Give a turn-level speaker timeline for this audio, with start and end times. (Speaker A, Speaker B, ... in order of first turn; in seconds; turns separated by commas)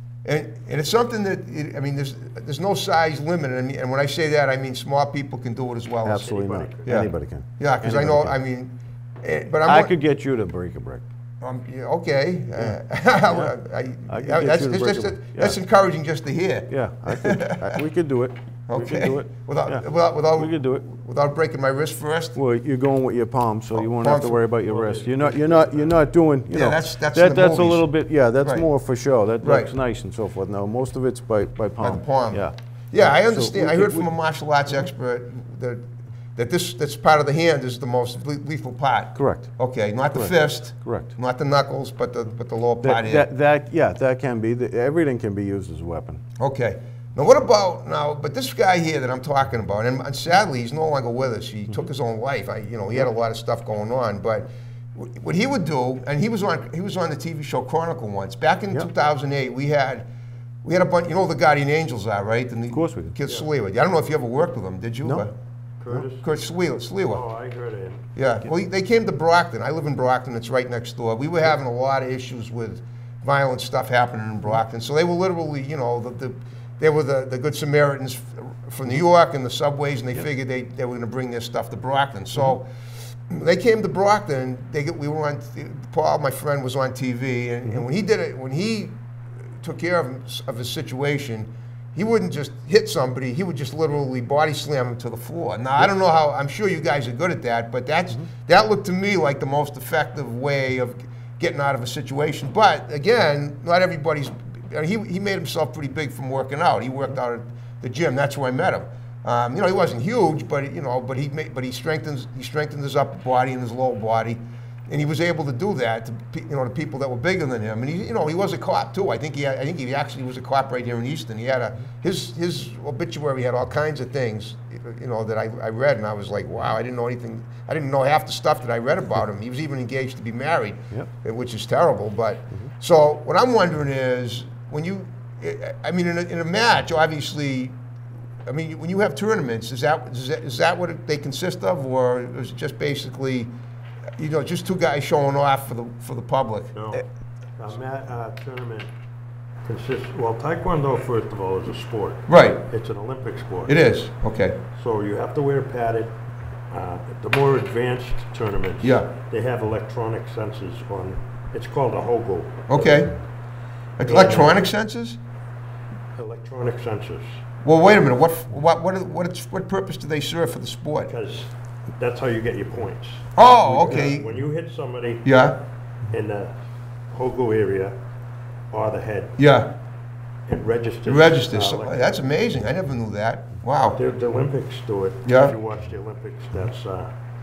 Speaker A: 0.2-6.3, Speaker B: 6.0-8.4, Speaker C: 6.1-7.0, Speaker A: 6.8-9.9, Speaker B: 9.7-11.0, Speaker A: 11.4-17.7, Speaker B: 14.1-15.6, Speaker B: 16.7-20.8, Speaker A: 18.7-22.4, Speaker B: 22.3-34.1, Speaker A: 23.8-24.4, Speaker C: 24.7-26.0, Speaker A: 26.5-27.9, Speaker A: 28.4-28.7, Speaker A: 29.4-29.7, Speaker A: 31.8-43.3, Speaker B: 39.1-39.5, Speaker B: 40.1-41.1, Speaker B: 42.8-46.2, Speaker A: 46.4-60.1, Speaker A: 60.6-65.3, Speaker B: 62.7-63.1, Speaker C: 65.8-66.2, Speaker A: 66.2-67.2, Speaker C: 67.1-68.0, Speaker A: 68.1-82.7, Speaker A: 83.2-89.0, Speaker A: 89.6-137.8, Speaker A: 138.4-143.5, Speaker A: 144.2-146.7, Speaker C: 146.7-147.0, Speaker C: 147.6-148.9, Speaker C: 149.6-153.7, Speaker A: 152.3-152.6, Speaker A: 153.7-154.6, Speaker C: 154.7-156.2, Speaker C: 156.7-163.0, Speaker A: 158.8-159.1, Speaker A: 162.7-163.2, Speaker A: 164.0-165.2, Speaker C: 164.0-164.6, Speaker C: 166.1-167.3, Speaker A: 167.6-171.1, Speaker C: 171.1-175.3, Speaker A: 173.3-174.3, Speaker A: 175.2-175.6, Speaker C: 176.1-176.6, Speaker C: 177.1-177.9, Speaker C: 178.7-179.4, Speaker A: 179.4-179.7, Speaker C: 180.5-182.2, Speaker A: 181.1-184.0, Speaker C: 183.9-187.1, Speaker A: 185.2-185.5